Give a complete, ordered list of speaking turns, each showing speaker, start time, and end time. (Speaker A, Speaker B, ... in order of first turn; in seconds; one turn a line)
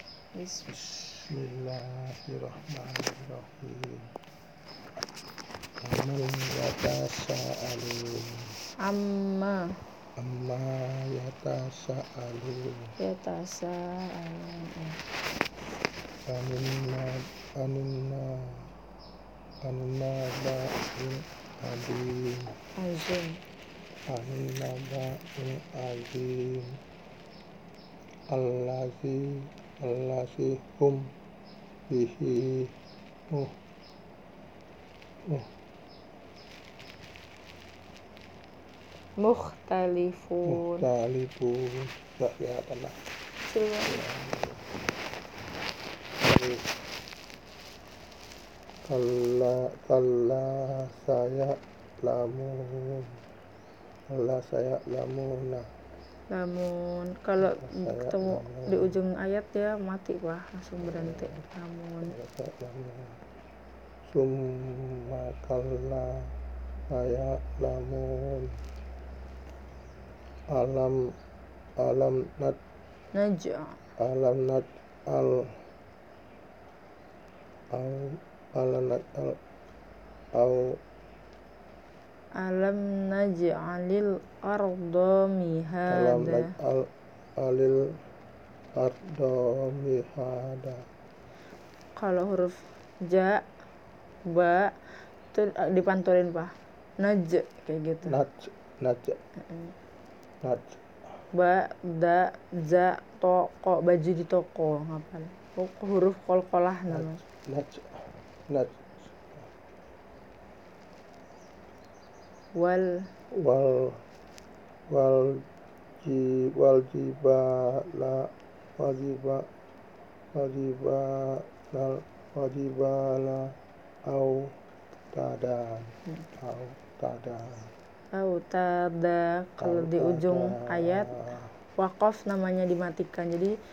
Speaker A: 0.3-0.7
Speaker B: 0.7-4.1
Speaker B: 5.8-8.4
Speaker A: 8.8-9.6
Speaker B: 10.2-12.9
Speaker A: 13.0-15.0
Speaker B: 16.3-18.7
Speaker B: 19.6-22.5
Speaker A: 22.8-23.4
Speaker B: 24.1-26.8
Speaker B: 28.3-31.1
Speaker B: 31.9-32.7
Speaker A: 39.2-40.9
Speaker B: 40.5-43.0
Speaker A: 43.5-44.0
Speaker B: 43.9-44.6
Speaker B: 46.2-46.7
Speaker B: 48.9-53.1
Speaker B: 54.1-55.7
Speaker A: 56.3-62.1
Speaker B: 57.4-59.0
Speaker B: 60.8-61.4
Speaker B: 62.0-63.2
Speaker B: 64.0-66.3
Speaker B: 66.9-68.5
Speaker B: 70.5-71.0
Speaker B: 71.8-72.6
Speaker A: 73.1-73.8
Speaker B: 74.0-75.5
Speaker B: 77.7-79.4
Speaker B: 80.3-80.8
Speaker A: 82.4-86.5
Speaker B: 85.9-87.8
Speaker B: 88.8-90.9
Speaker A: 92.0-93.4
Speaker A: 94.3-94.7
Speaker A: 95.3-98.2
Speaker B: 98.1-99.2
Speaker A: 99.5-99.7
Speaker B: 100.4-100.8
Speaker A: 101.4-107.2
Speaker B: 106.9-107.9
Speaker B: 108.5-109.5
Speaker A: 112.6-112.8
Speaker B: 113.4-114.0
Speaker B: 114.9-115.4
Speaker B: 116.0-119.5
Speaker B: 120.3-123.5
Speaker B: 124.1-124.5
Speaker B: 125.1-127.7
Speaker A: 128.1-131.2
Speaker B: 129.6-131.5
Speaker A: 131.8-133.5